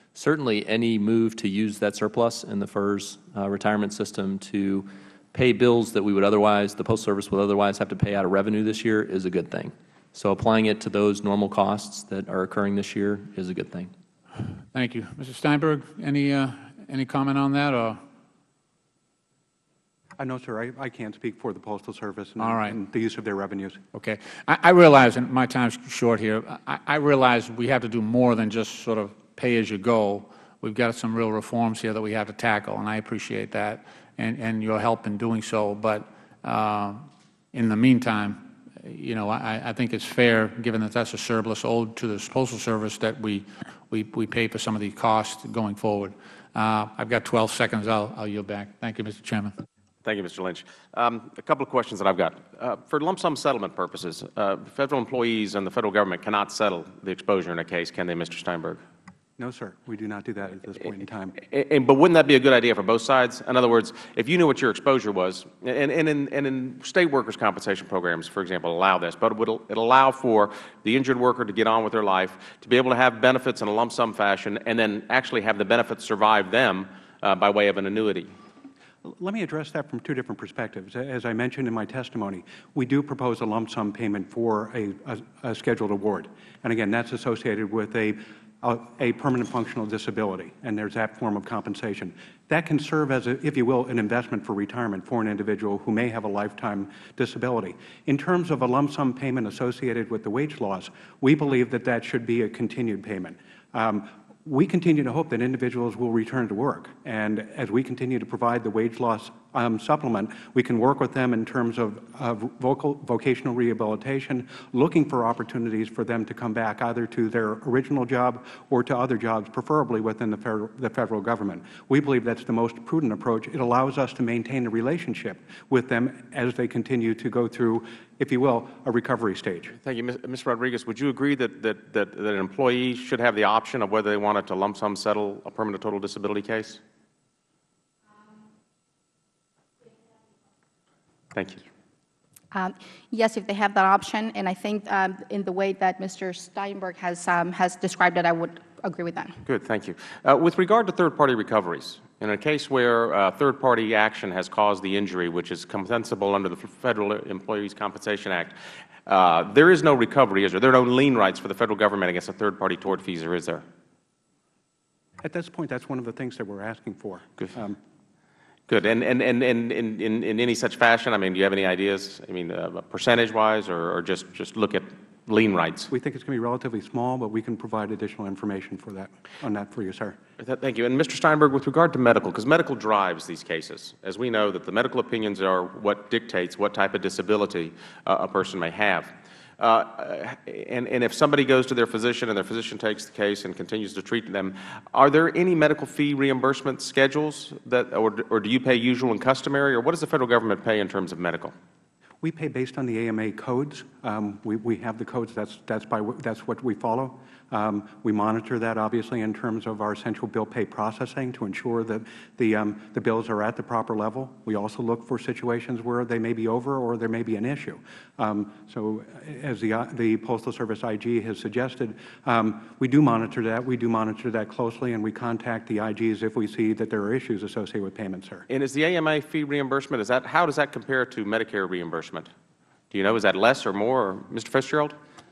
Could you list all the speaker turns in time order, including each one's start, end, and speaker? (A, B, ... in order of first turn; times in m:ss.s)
0:00.1-0:13.9 A
0:14.7-0:18.0 B
0:20.2-0:23.8 C
0:22.4-0:22.8 B
0:23.9-0:49.5 B
0:50.0-0:58.8 D
0:59.4-1:01.4 C
1:01.4-1:18.3 D
1:19.0-2:09.7 C
2:09.8-2:16.8 D
2:21.3-2:21.6 D
2:22.5-2:29.4 E
2:29.4-2:43.6 D
2:45.2-2:47.8 C
2:48.7-2:55.9 D
2:55.9-3:00.2 C
3:00.4-3:21.5 D
3:22.2-3:48.4 C
3:48.5-3:52.3 D
3:52.9-3:54.9 D